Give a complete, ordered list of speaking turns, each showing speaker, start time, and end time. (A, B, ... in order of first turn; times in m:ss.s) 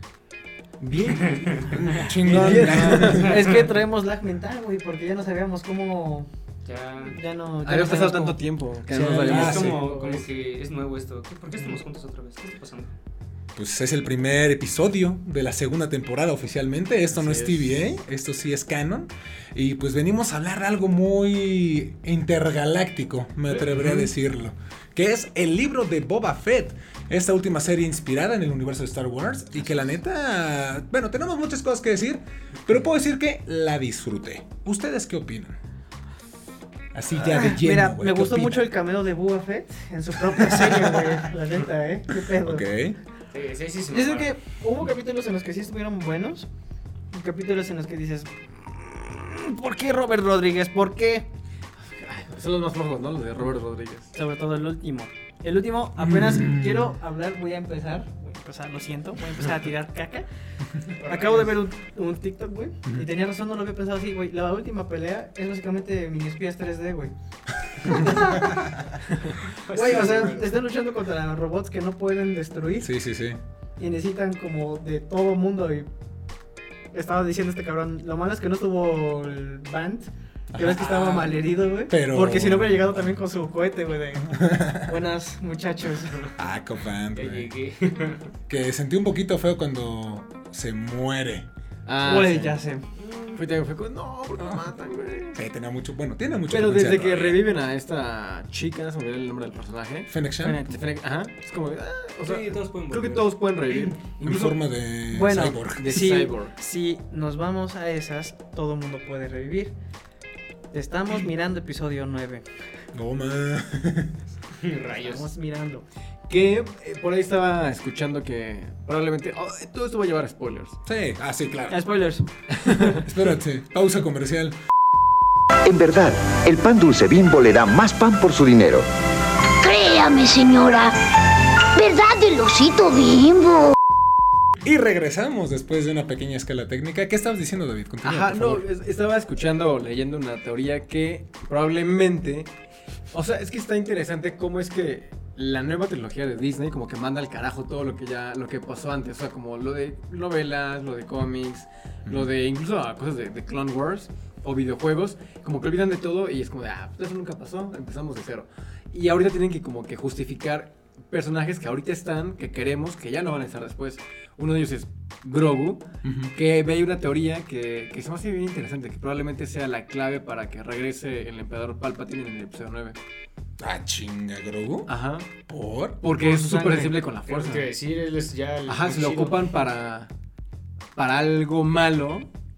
0:00.8-0:03.3 A
0:01.2-0:01.7 B
0:01.7-0:03.4 C
0:02.0-0:06.3 D
0:03.1-0:03.6 B
0:06.6-0:07.2 B
0:07.0-0:10.2 D
0:07.6-0:09.8 A
0:08.9-0:09.8 C
0:09.2-0:12.9 B
0:13.5-0:35.6 C
0:17.1-0:17.7 A
0:36.9-0:38.7 C
0:37.1-0:42.7 D
0:40.3-0:41.1 C
0:42.3-0:43.0 C
0:43.3-0:44.3 B
0:43.9-0:46.5 D
0:47.1-0:51.3 D
0:51.8-0:54.1 A
0:54.1-1:00.3 D
0:56.0-0:56.9 C
1:01.0-1:01.6 B
1:01.0-1:07.1 D
1:07.8-1:08.9 D
1:07.8-1:08.5 C
1:09.5-1:10.6 B
1:09.7-1:12.9 D
1:12.8-1:13.4 C
1:13.8-1:15.9 D
1:16.9-1:26.3 D
1:20.5-1:23.2 C
1:24.3-1:24.9 C
1:26.4-1:27.5 C
1:27.1-1:28.3 B
1:28.5-1:31.5 C
1:31.8-1:32.6 A
1:32.0-1:32.8 D
1:33.0-1:33.4 B
1:33.3-1:35.4 A
1:35.3-1:37.4 C
1:36.5-1:44.6 A
1:40.1-1:40.6 C
1:40.4-1:40.8 D
1:42.2-1:44.0 B
1:44.2-1:46.0 C
1:45.1-1:49.7 D
1:45.6-1:46.5 A
1:50.7-1:52.4 D
1:52.9-1:54.2 C
1:54.6-1:55.2 B
1:55.0-1:55.8 D
1:56.3-2:00.8 A
2:00.8-2:01.8 C
2:01.7-2:02.9 D
2:02.6-2:02.9 A
2:02.8-2:04.6 C
2:05.6-2:08.9 E
2:09.6-2:11.0 F
2:11.7-2:13.7 F
2:14.6-2:18.6 C
2:18.0-2:22.5 A
2:23.1-2:53.0 A
2:46.0-2:46.3 C
2:53.6-2:54.9 C
2:54.9-2:55.3 A
2:55.5-2:56.0 C
2:56.0-2:57.7 A
2:56.1-2:57.0 D
2:57.2-2:59.4 B
2:58.7-3:00.1 A
3:00.9-3:02.3 A